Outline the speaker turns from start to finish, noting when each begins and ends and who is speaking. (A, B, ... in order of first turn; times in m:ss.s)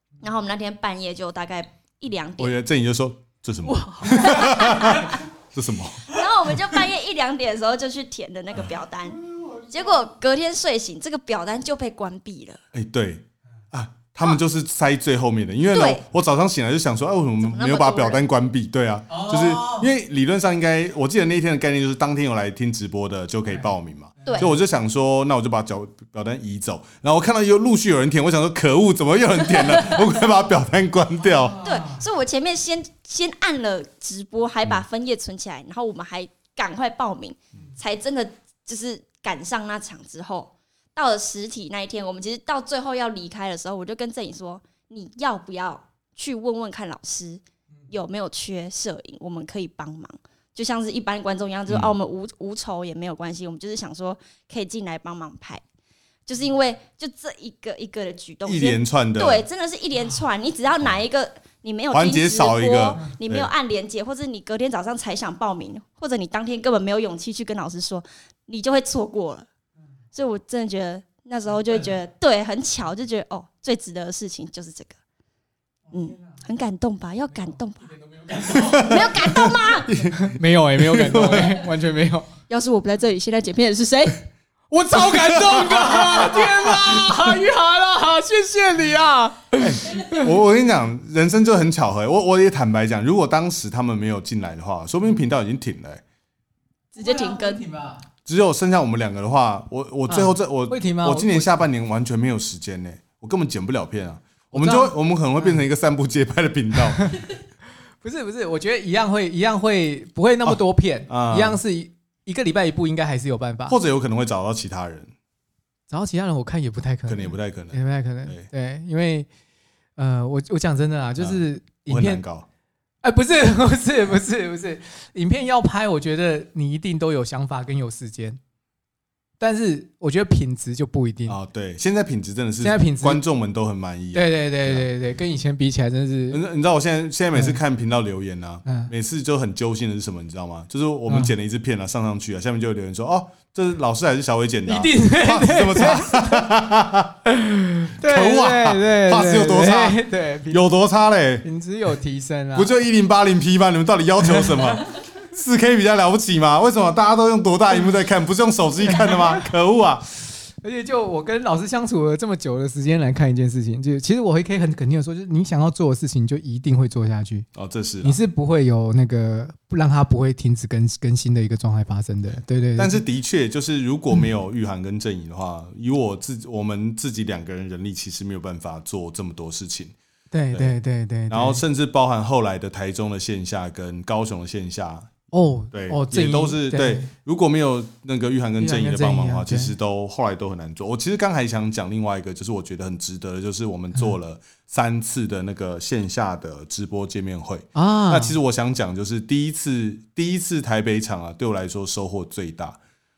0:00.2-0:02.5 A
0:02.4-0:06.1 B
0:03.9-0:05.1 C
0:04.0-0:05.1 A
0:06.0-0:12.6 A
0:09.3-0:09.7 C
0:12.7-0:31.6 B
0:15.7-0:16.0 A
0:17.4-0:18.2 A
0:19.1-0:19.9 C
0:24.2-0:24.5 C
0:24.2-0:24.5 A
0:29.5-0:30.1 A
0:31.5-0:32.0 C
0:31.6-0:55.6 A
0:51.7-0:51.9 B
0:56.3-1:09.5 A
0:58.4-0:59.4 B
1:01.9-1:03.5 B
1:10.1-1:15.0 A
1:15.9-1:19.9 A
1:17.9-1:19.1 C
1:18.5-1:21.6 B
1:20.1-1:22.3 C
1:22.5-1:24.2 A
1:24.7-1:30.3 C
1:24.9-1:27.2 B
1:29.6-1:36.0 B
1:36.9-1:37.6 A
1:37.0-1:38.0 C
1:38.2-1:47.1 B
1:40.1-1:41.6 C
1:44.5-1:45.6 C
1:48.0-1:53.8 C
1:50.4-1:51.6 B
1:53.7-1:55.1 B
1:55.9-1:59.3 C
1:57.1-1:58.5 B
2:00.0-2:02.2 C
2:01.2-2:02.4 B
2:03.0-2:08.4 C
2:09.4-2:11.4 C
2:11.3-2:14.9 B
2:12.6-2:13.2 C
2:14.1-2:16.4 C
2:16.3-2:27.2 B
2:18.6-2:18.9 C
2:24.6-2:26.5 C
2:27.2-2:30.6 C
2:28.0-2:31.4 B
2:31.4-2:32.7 C
2:32.5-2:40.1 B
2:34.2-2:34.8 C
2:38.9-2:39.4 C
2:40.6-2:47.5 C
2:47.5-2:48.2 B
2:48.0-2:53.0 C
2:52.8-2:59.9 B
3:00.3-3:01.6 C
3:01.3-3:05.1 B
3:05.3-3:07.1 C
3:05.7-3:22.8 B
3:08.6-3:09.7 C
3:17.7-3:18.4 C